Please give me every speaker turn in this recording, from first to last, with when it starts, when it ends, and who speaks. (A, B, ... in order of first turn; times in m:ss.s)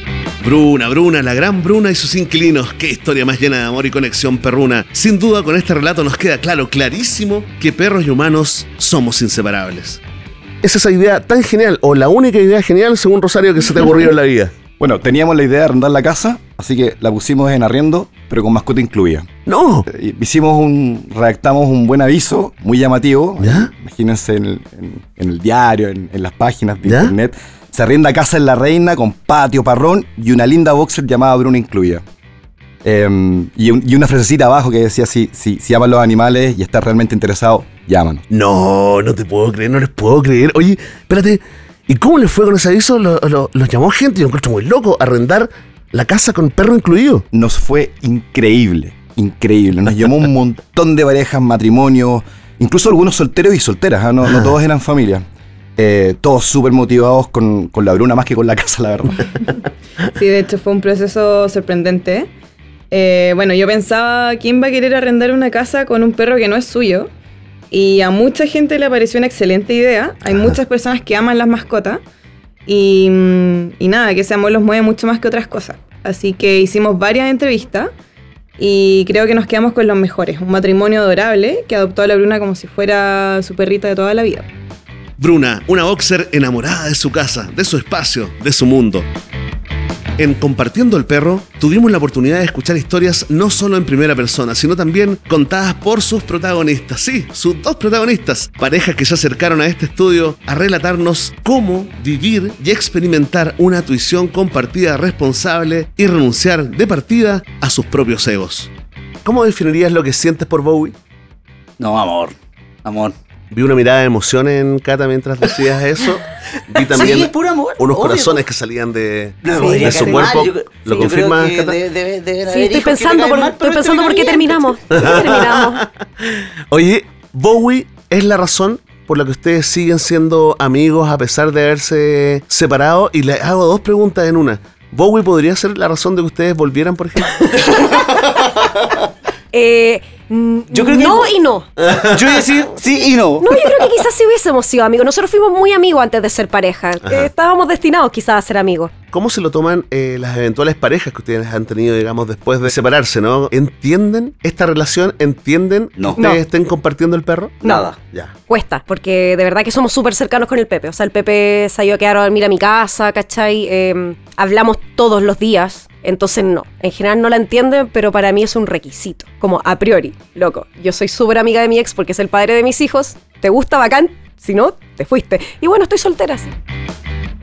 0:00.4-0:10.0 A
0:10.6-0:14.5 A
0:14.8-0:19.3 B
0:19.4-0:19.8 A
0:19.9-0:32.0 B
0:23.4-0:23.7 A
0:26.8-0:27.1 A
0:32.8-0:38.2 B
0:38.3-0:47.2 A
0:47.3-0:55.2 B
0:55.8-0:59.2 B
1:00.1-1:02.3 C
1:02.9-1:07.1 C
1:07.7-1:12.0 C
1:10.3-1:10.6 A
1:12.7-1:17.9 C
1:18.6-1:24.5 C
1:25.2-1:29.0 A
1:30.2-1:48.7 A
1:49.2-1:50.9 A
1:51.8-1:53.1 D
1:53.5-2:01.8 A
1:56.8-1:58.4 D
1:59.4-2:05.2 D
1:59.7-2:00.3 E
2:02.5-2:05.8 E
2:04.9-2:05.8 A
2:06.7-2:17.4 A
2:19.5-2:21.7 E
2:20.7-2:24.0 D
2:21.8-2:22.6 A
2:23.4-2:28.9 E
2:27.0-2:27.3 A
2:29.1-2:38.3 A
2:36.0-2:36.4 D
2:37.6-2:37.9 E
2:37.6-2:38.0 D
2:38.5-2:56.5 E